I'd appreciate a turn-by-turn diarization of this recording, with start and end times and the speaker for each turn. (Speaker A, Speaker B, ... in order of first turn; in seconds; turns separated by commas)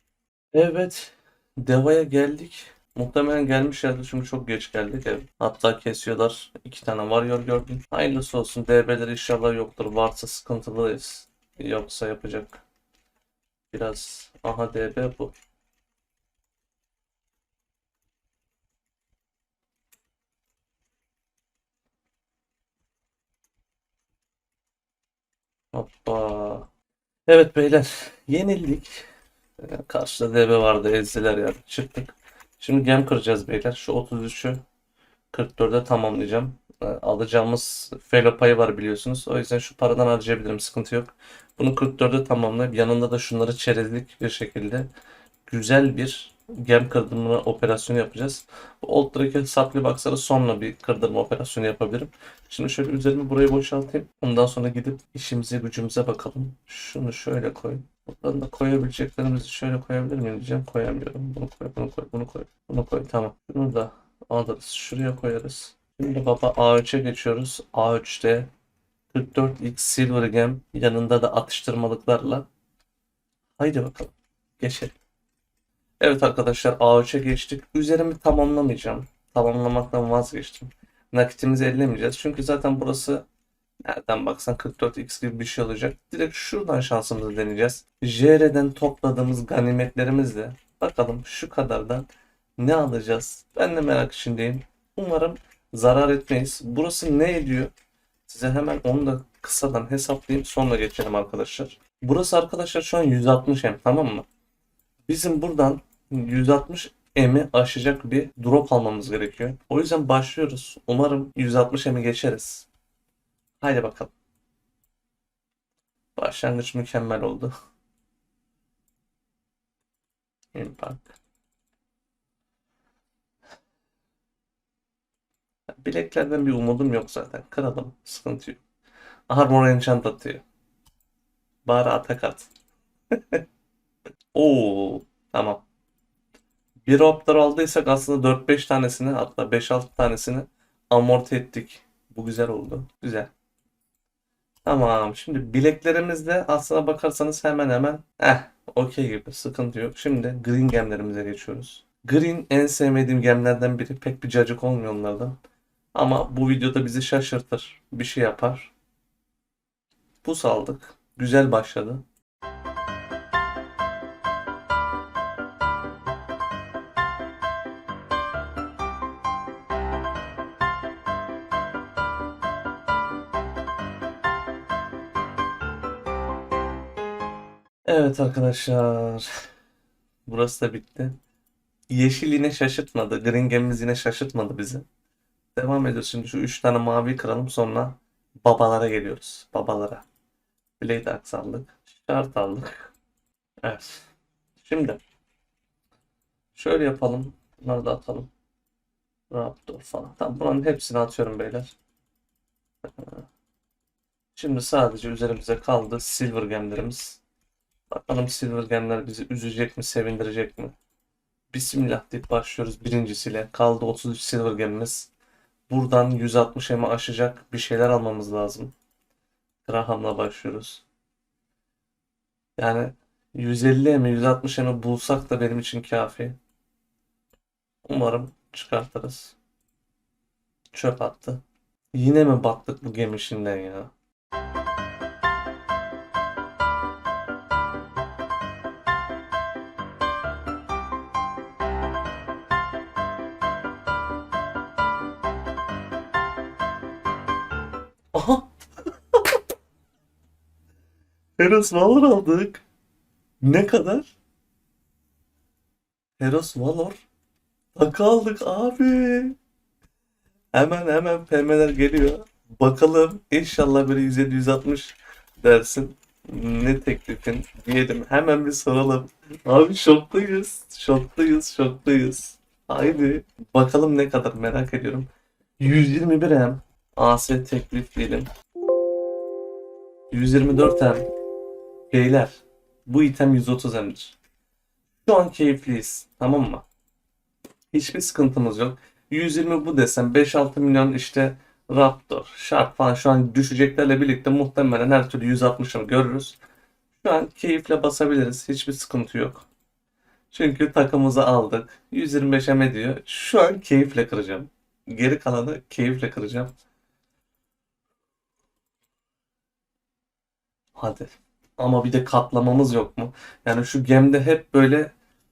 Speaker A: 0.5-12.6, Speaker A: 13.7-15.3, Speaker A: 25.7-26.7, Speaker A: 27.3-29.0, Speaker A: 29.6-34.6, Speaker A: 35.3-44.9, Speaker A: 45.5-68.5, Speaker A: 69.1-72.5, Speaker A: 73.6-74.9, Speaker A: 76.0-83.2, Speaker A: 83.8-92.1, Speaker A: 92.6-97.7, Speaker A: 98.3-104.2, Speaker A: 105.1-112.7, Speaker A: 113.6-114.1, Speaker A: 116.2-117.5, Speaker A: 120.5-121.1, Speaker A: 125.8-128.6, Speaker A: 129.3-130.4, Speaker A: 131.6-132.5, Speaker A: 133.1-133.4, Speaker A: 134.3-135.6, Speaker A: 136.8-143.3, Speaker A: 144.6-155.3, Speaker A: 155.9-158.7, Speaker A: 160.2-162.0, Speaker A: 177.9-179.3, Speaker A: 180.3-181.2, Speaker A: 181.9-184.8, Speaker A: 185.6-190.0, Speaker A: 190.8-192.9, Speaker A: 193.6-194.1, Speaker A: 194.6-195.0, Speaker A: 196.6-198.3, Speaker A: 199.3-201.7, Speaker A: 202.9-203.2, Speaker A: 204.3-207.2, Speaker A: 207.9-210.7, Speaker A: 211.5-215.1, Speaker A: 215.7-218.7, Speaker A: 219.6-220.8, Speaker A: 222.6-226.4, Speaker A: 227.8-229.3, Speaker A: 230.7-231.4, Speaker A: 231.9-233.9, Speaker A: 248.1-249.4, Speaker A: 251.4-252.6, Speaker A: 253.4-254.1, Speaker A: 256.2-257.0, Speaker A: 257.7-259.4, Speaker A: 260.5-275.1, Speaker A: 275.6-278.3, Speaker A: 280.1-281.0, Speaker A: 281.9-284.1, Speaker A: 285.0-286.6, Speaker A: 287.7-296.4, Speaker A: 297.0-299.5, Speaker A: 300.3-306.5, Speaker A: 310.8-314.9